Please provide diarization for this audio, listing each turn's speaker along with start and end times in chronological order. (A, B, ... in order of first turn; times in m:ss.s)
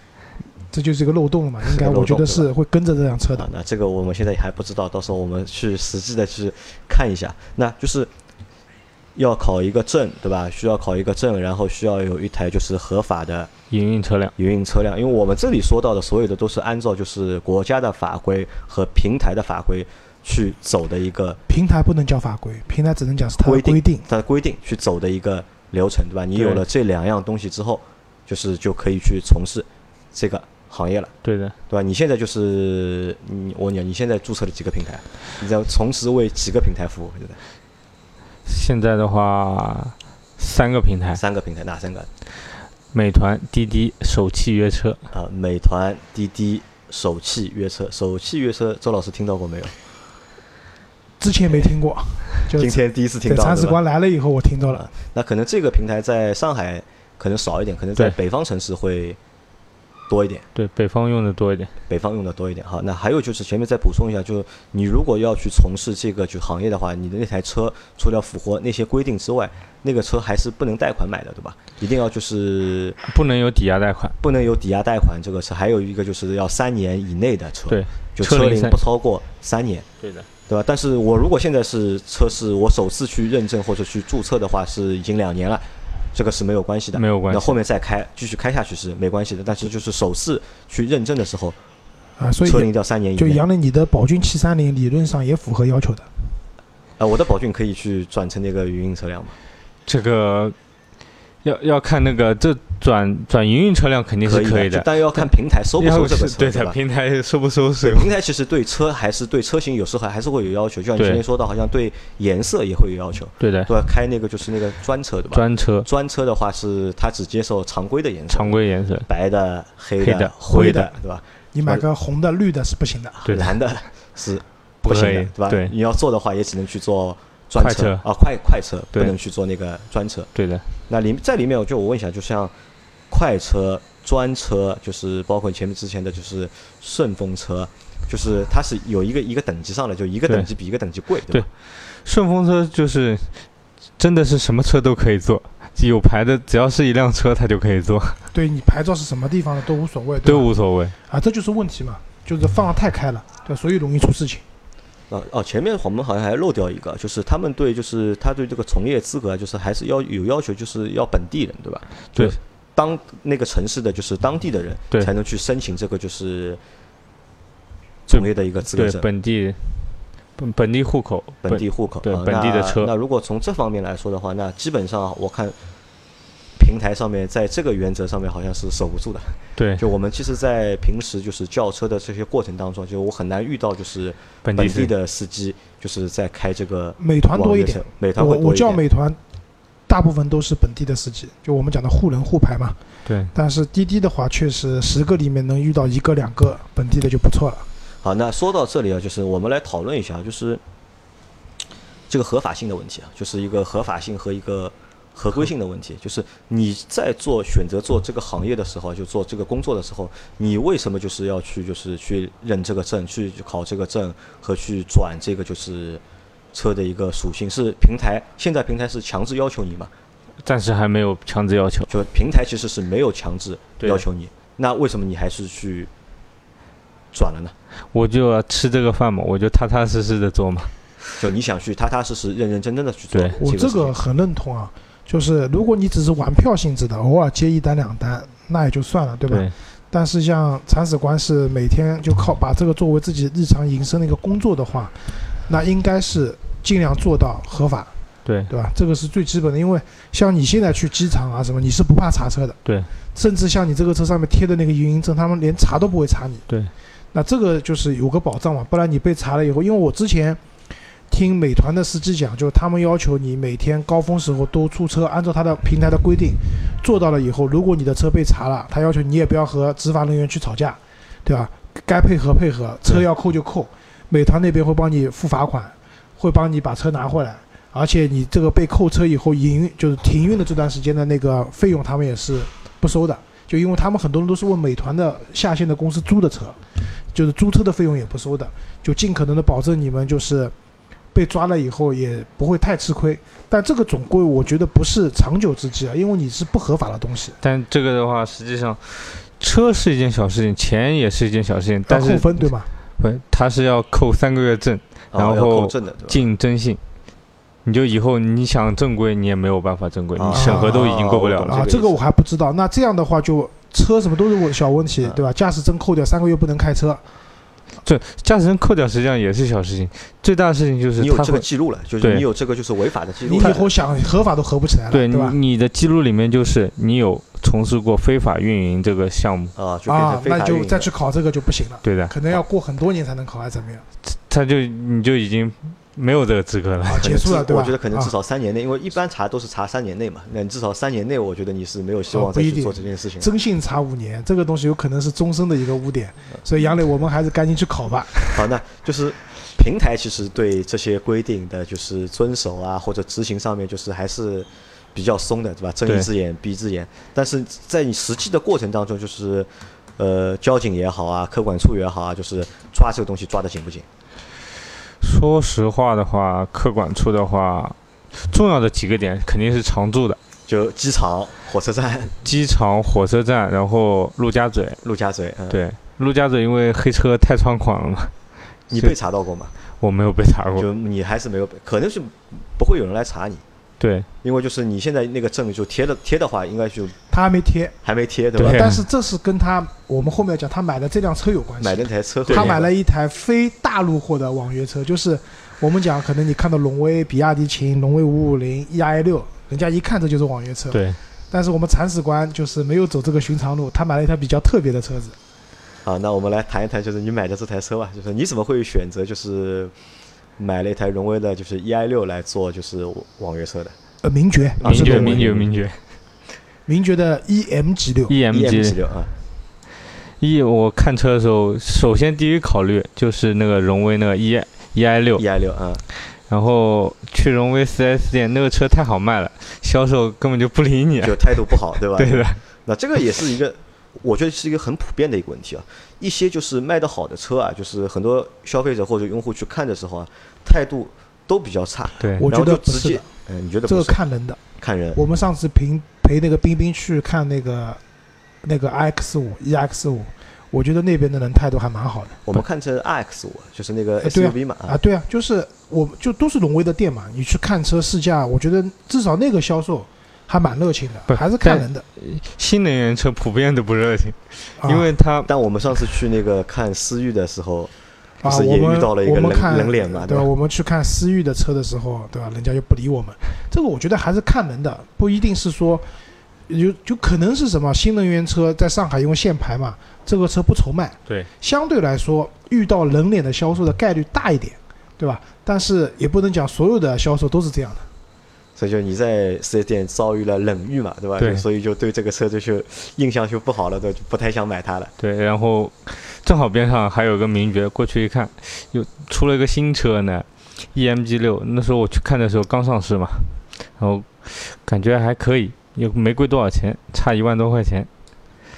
0:00.7-0:03.5 A
0:01.6-0:02.5 B
0:03.4-0:08.1 B
0:09.2-0:13.5 B
0:13.7-0:14.3 C
0:14.4-0:21.4 B
0:21.5-0:24.0 A
0:23.4-0:31.1 B
0:26.4-0:26.6 C
0:31.2-0:31.6 C
0:31.7-0:37.4 B
0:38.5-0:41.2 C
0:41.1-0:42.1 B
0:42.9-0:45.0 C
0:45.1-0:49.7 B
0:51.2-0:54.9 A
0:52.5-0:53.8 B
0:54.7-0:59.2 B
1:00.1-1:00.5 B
1:00.6-1:01.7 C
1:01.9-1:13.0 B
1:13.1-1:14.2 C
1:14.2-1:19.9 B
1:17.7-1:18.8 C
1:20.0-1:20.3 C
1:20.5-1:31.6 B
1:26.9-1:27.6 C
1:32.2-1:36.1 A
1:32.4-1:33.4 B
1:37.0-1:39.4 B
1:39.9-1:40.6 C
1:41.4-1:45.2 C
1:44.2-1:46.8 B
1:45.8-1:48.1 C
1:47.8-2:01.8 B
1:51.0-1:51.2 C
1:53.4-1:53.7 C
1:55.3-1:55.9 C
1:58.3-1:59.1 C
2:00.0-2:00.9 C
2:00.5-2:00.9 A
2:01.5-2:03.2 A
2:03.2-2:10.3 B
2:03.3-2:03.5 C
2:04.8-2:05.7 C
2:07.6-2:08.0 C
2:10.4-2:10.7 C
2:10.9-2:12.5 B
2:13.1-2:21.5 B
2:21.3-2:23.4 C
2:24.0-2:28.2 C
2:28.3-2:30.5 A
2:30.2-2:31.0 C
2:31.1-2:34.4 A
2:35.1-2:46.6 B
2:48.1-2:49.1 B
2:48.1-2:49.8 C
2:50.4-2:52.9 C
2:51.4-2:55.6 B
2:56.6-3:08.8 B
2:59.6-2:59.8 C
3:04.4-3:04.9 C
3:07.0-3:09.2 A
3:09.9-3:12.8 A
3:13.1-3:13.3 C
3:13.3-3:17.7 A
3:18.0-3:20.6 B
3:22.1-3:36.0 B
3:36.5-3:39.9 B
3:40.4-3:41.9 C
3:41.9-3:45.9 B
3:47.1-3:47.6 B
3:47.9-3:50.7 C
3:51.2-3:54.0 B
3:53.4-4:07.9 A
4:08.2-4:08.5 C
4:08.5-4:12.6 A
4:13.2-4:16.4 A
4:17.1-4:20.4 A
4:21.1-4:46.6 A
4:47.1-4:50.5 A
4:51.1-4:57.4 A
4:57.4-5:06.8 C
5:01.9-5:02.7 A
5:05.1-5:06.3 B
5:07.6-5:11.6 C
5:10.2-5:12.0 B
5:10.3-5:10.9 A
5:11.5-5:17.0 A
5:17.8-5:21.5 C
5:21.0-5:23.7 B
5:23.2-5:25.4 A
5:24.9-5:29.6 C
5:29.6-5:30.9 B
5:29.9-5:33.8 A
5:31.8-5:32.1 C
5:34.1-5:37.1 C
5:36.9-5:38.1 A
5:36.9-5:43.3 B
5:42.1-5:48.3 A
5:48.3-6:03.9 B
6:05.0-6:10.2 C
6:10.5-6:12.2 B
6:12.2-6:14.8 C
6:14.8-6:15.6 B
6:15.5-6:18.1 C
6:18.7-6:19.5 B
6:19.8-6:20.7 C
6:20.6-6:23.4 B
6:23.8-6:24.1 C
6:24.2-6:27.0 B
6:27.1-6:27.8 A
6:27.8-6:28.7 B
6:28.4-6:28.8 C
6:28.4-6:45.2 A
6:31.6-6:32.7 B
6:32.3-6:32.6 C
6:40.7-6:41.0 C
6:45.8-6:49.7 B
6:50.4-6:53.8 B
6:54.0-6:55.2 A
6:54.6-6:55.5 B
6:54.6-6:55.8 C
6:56.7-6:58.1 A
6:58.1-6:58.8 C
6:58.3-6:59.1 B
7:00.2-7:05.2 C
7:05.2-7:05.8 B
7:06.3-7:12.4 C
7:11.0-7:24.0 B
7:22.0-7:22.2 C
7:22.2-7:23.1 A
7:23.7-7:24.4 A
7:24.6-7:25.0 B
7:25.0-7:27.8 A
7:28.4-7:32.2 A
7:32.3-7:34.8 B
7:34.0-7:41.8 A
7:41.1-7:45.3 C
7:44.6-7:44.9 A
7:45.3-7:47.7 B
7:48.2-7:55.9 A
7:48.2-7:50.3 B
7:56.5-8:07.9 A
8:08.6-8:14.9 B
8:11.2-8:11.4 C
8:15.0-8:27.9 C